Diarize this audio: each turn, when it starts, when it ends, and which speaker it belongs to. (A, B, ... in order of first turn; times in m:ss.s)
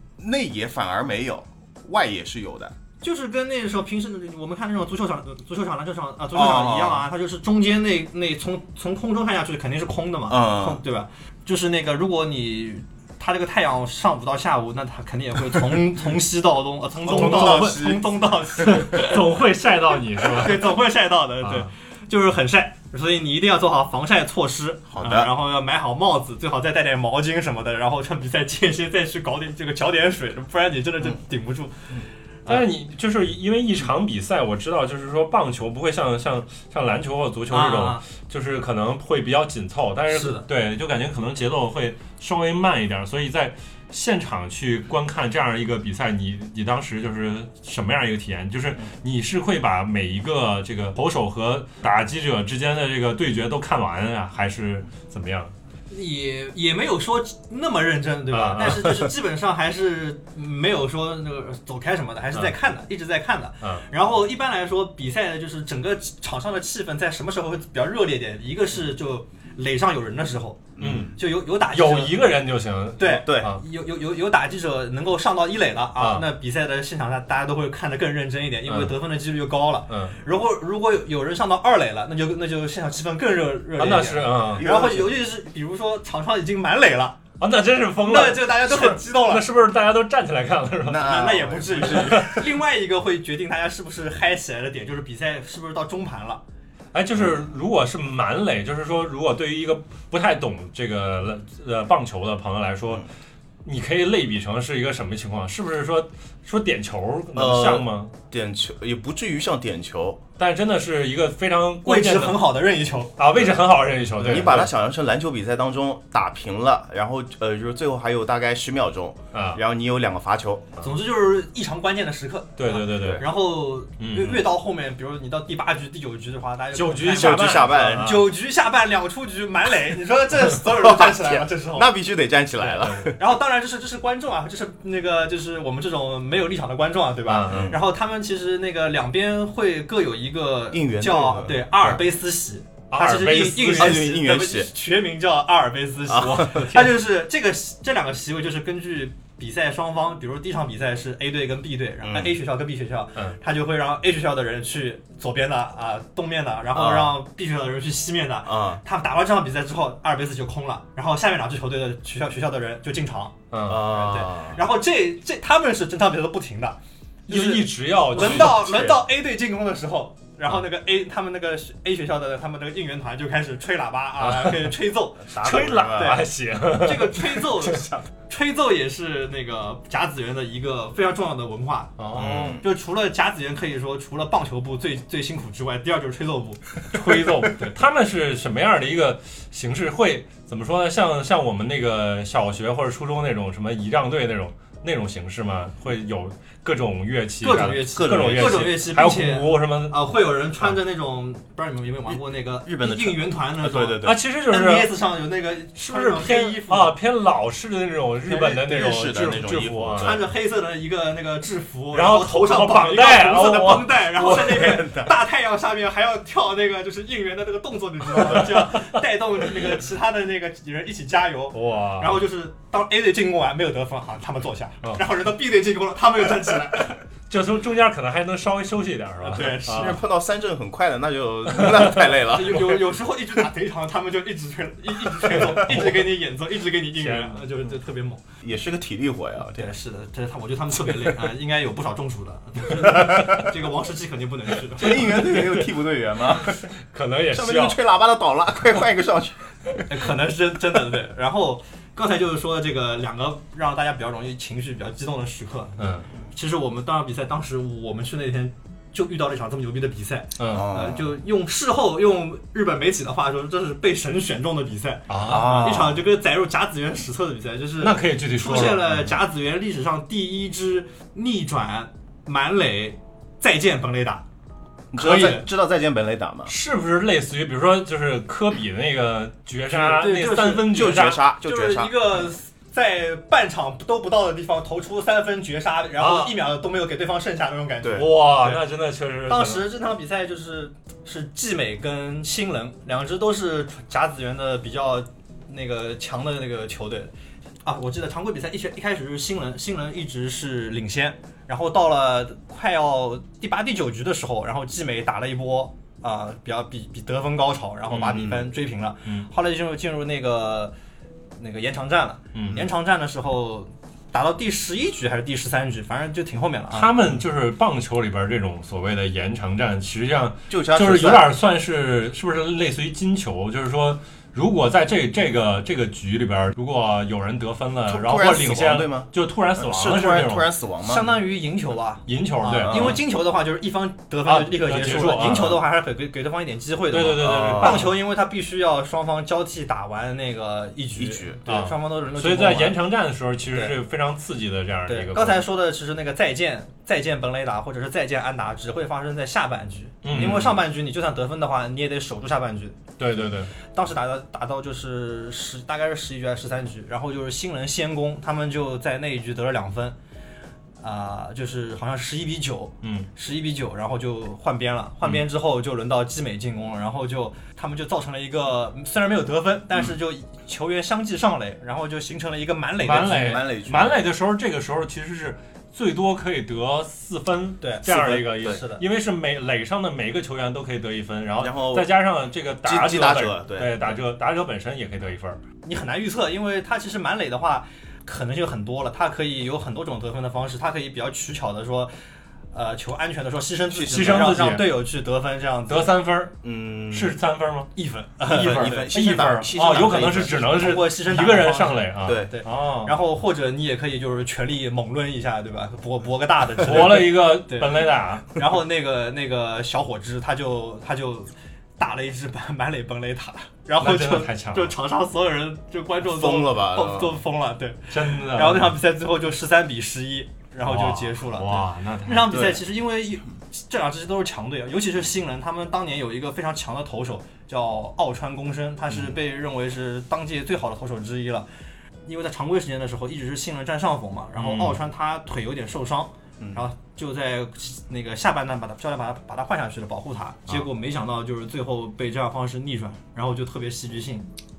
0:00.2-0:02.7 A
0:03.0-0:19.2 B
0:06.3-0:07.1 A
0:10.3-0:10.8 A
0:17.0-0:18.1 A
0:17.1-0:17.8 C
0:18.6-0:20.8 C
0:20.2-0:32.6 B
0:21.4-0:21.7 C
0:24.9-0:25.3 A
0:32.4-0:55.5 C
0:37.5-0:38.0 B
0:40.1-0:40.4 B
0:55.9-1:12.3 B
0:58.3-0:59.1 C
1:10.8-1:11.1 A
1:10.8-1:13.6 C
1:13.0-1:27.2 B
1:13.2-1:13.5 A
1:16.0-1:16.3 C
1:18.7-1:18.9 C
1:19.9-1:20.2 C
1:23.8-1:24.7 C
1:24.5-1:25.2 A
1:27.4-1:31.3 C
1:28.0-1:29.5 B
1:30.8-1:32.4 A
1:31.0-1:36.4 B
1:31.8-1:32.4 C
1:36.9-1:43.0 C
1:43.6-1:48.1 C
1:47.3-1:50.2 A
1:50.4-1:52.4 C
1:51.8-1:53.1 B
1:53.2-1:54.7 C
1:54.2-2:00.7 A
1:59.3-1:59.6 C
2:00.8-2:11.9 B
2:02.6-2:03.2 C
2:02.9-2:03.2 A
2:04.0-2:04.4 C
2:06.7-2:08.3 C
2:07.2-2:08.1 A
2:10.8-2:13.2 A
2:12.6-3:07.0 B
2:17.2-2:17.8 C
2:17.4-2:17.8 A
2:20.7-2:21.9 A
2:22.9-2:24.1 C
2:23.2-2:24.7 A
2:26.1-2:26.7 A
2:26.2-2:26.9 C
2:32.0-2:32.4 A
2:36.7-2:37.1 A
2:38.4-2:38.8 A
2:43.5-2:44.0 C
2:43.6-2:44.6 A
2:47.3-2:48.7 C
2:48.1-2:49.0 A
2:54.2-2:54.8 C
2:55.2-2:56.2 A
2:55.4-2:57.8 C
3:02.0-3:02.6 C
3:02.1-3:02.6 A
3:06.9-3:20.0 C
3:17.4-3:26.9 B
3:17.9-3:18.8 A
3:22.1-3:24.2 A
3:24.0-3:24.9 C
3:25.8-3:30.2 C
3:28.3-3:28.5 B
3:28.4-3:30.3 A
3:30.0-3:47.0 B
3:31.9-3:34.8 C
3:34.2-3:35.1 A
3:38.3-3:38.8 C
3:41.5-3:42.2 C
3:47.3-3:50.0 C
3:49.2-3:50.0 B
3:49.4-3:52.8 A
3:51.6-3:52.1 C
3:52.2-3:58.2 B
3:55.2-3:56.2 C
3:57.0-3:57.5 C
3:58.4-3:59.7 A
3:59.5-4:05.2 B
4:04.8-4:06.6 A
4:04.8-4:07.8 C
4:07.3-4:09.8 A
4:09.9-4:15.8 B
4:15.8-4:16.0 C
4:16.3-4:34.2 B
4:20.4-4:20.6 C
4:20.5-4:21.1 A
4:25.1-4:25.8 C
4:25.2-4:26.0 A
4:27.8-4:28.9 C
4:34.9-4:36.5 A
4:34.9-4:35.4 B
4:36.4-4:41.2 C
4:39.7-4:48.6 B
4:40.7-4:41.9 A
4:46.0-4:46.4 C
4:47.8-4:48.1 A
4:47.9-4:49.7 C
4:49.3-4:57.1 B
4:57.6-5:10.7 B
5:07.9-5:08.3 C
5:08.1-5:08.4 A
5:11.4-5:17.0 B
5:12.3-5:12.6 C
5:16.7-5:30.5 C
5:20.5-5:21.3 A
5:27.9-5:31.1 A
5:30.8-5:42.8 B
5:32.1-5:33.0 C
5:32.6-5:33.0 A
5:34.2-5:35.6 C
5:36.9-5:38.0 C
5:37.2-5:37.9 A
5:41.0-5:41.4 A
5:41.5-5:45.4 C
5:44.9-5:52.8 B
5:50.0-5:50.5 C
5:50.1-5:50.6 A
5:53.0-5:53.5 C
5:53.7-6:00.0 B
6:00.8-6:13.4 B
6:02.8-6:03.1 C
6:12.8-6:25.4 C
6:12.9-6:14.0 A
6:17.6-6:18.8 B
6:21.4-6:21.9 A
6:22.6-6:23.9 A
6:25.6-6:31.9 B
6:32.5-6:35.9 B
6:33.7-6:34.5 A
6:33.8-6:34.7 C
6:35.7-6:36.3 C
6:36.4-6:37.2 A
6:36.9-6:37.7 C
6:37.8-6:47.8 B
6:38.2-6:40.7 A
6:38.3-6:42.9 C
6:42.0-6:42.3 A
6:46.6-6:48.2 C
6:48.3-7:11.5 B
6:53.8-6:54.8 C
6:56.0-6:57.2 A
6:57.9-6:58.7 C
7:00.6-7:02.4 C
7:02.3-7:02.6 A
7:12.0-7:24.3 B
7:14.4-7:14.8 C
7:16.4-7:16.6 A